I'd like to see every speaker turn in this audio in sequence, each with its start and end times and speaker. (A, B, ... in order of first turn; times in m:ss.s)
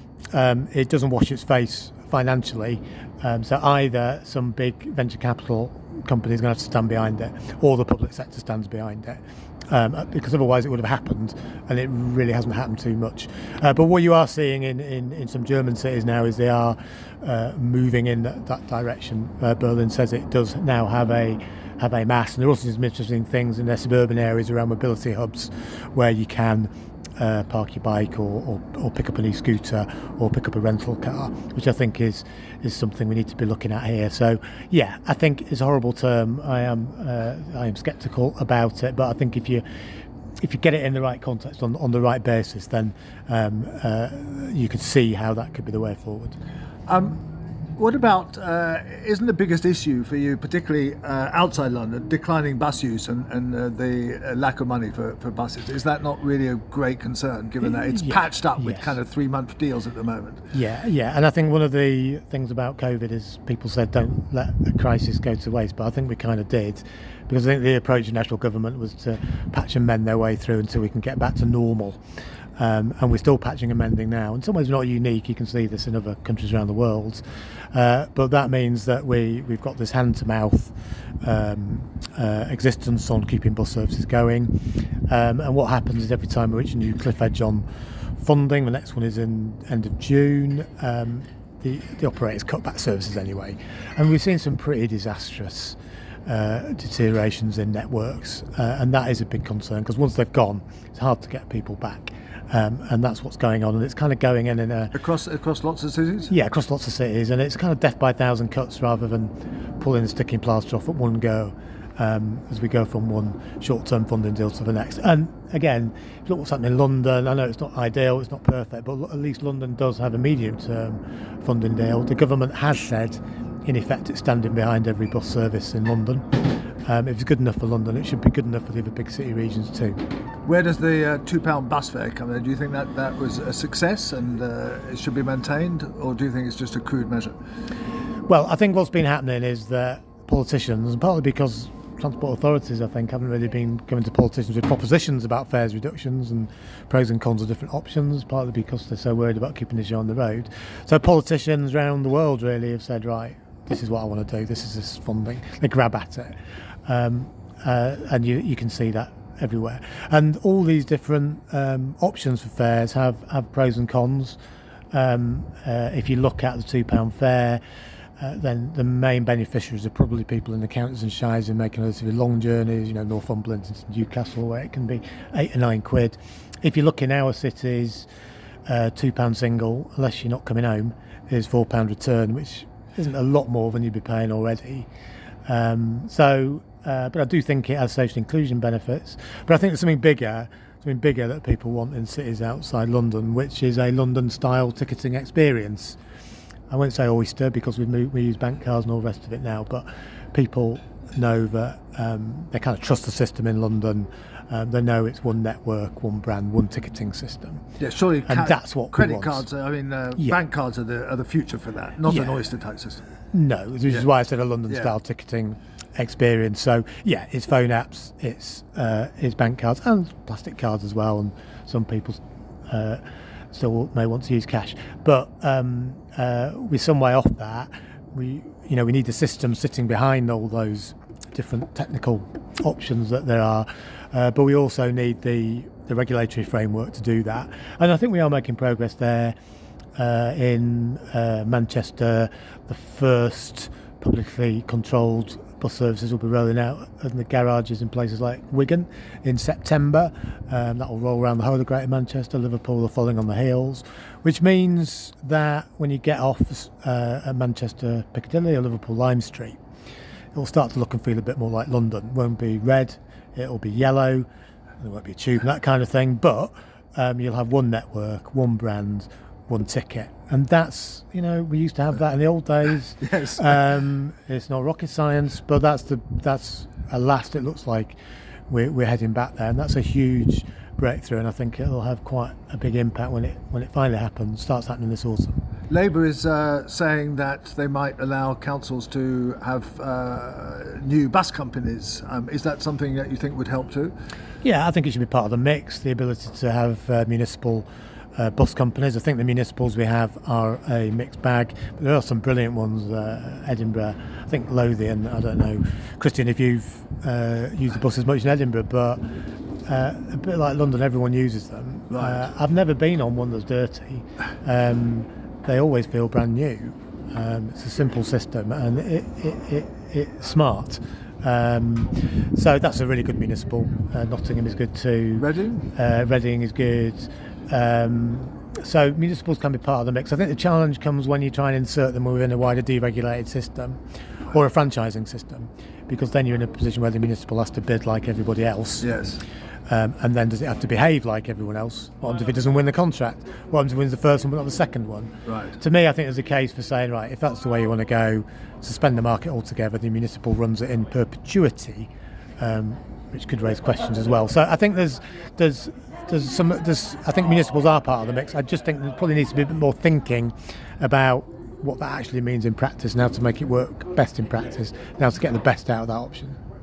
0:00.3-0:39.6 A
0:40.4-0:46.4 A
0:46.9-0:47.2 B
0:47.8-1:00.5 B
0:57.6-0:58.9 A
1:00.5-1:12.0 A
1:12.6-1:24.5 A
1:25.1-1:27.6 A
1:28.2-1:44.9 A
1:44.9-1:46.3 B
1:46.3-2:10.0 A
2:10.4-2:17.3 B
2:18.3-2:44.4 A
2:44.9-2:47.6 A
2:48.2-2:58.1 A
2:58.7-3:04.9 A
3:05.5-3:16.0 A
3:16.7-3:27.6 A
3:27.8-3:33.0 B
3:28.3-3:29.4 A
3:32.1-3:32.3 A
3:33.3-3:59.3 A
3:34.7-3:34.9 B
4:00.0-4:19.6 A
4:20.3-4:24.3 A
4:24.8-4:38.0 A
4:33.0-4:33.6 B
4:38.5-4:45.4 A
4:45.7-4:53.9 B
4:54.4-5:09.0 A
5:09.6-5:38.9 A
5:11.9-5:12.2 B
5:25.2-5:25.7 B
5:38.8-5:39.2 B
5:39.7-6:06.4 A
5:45.2-5:45.6 B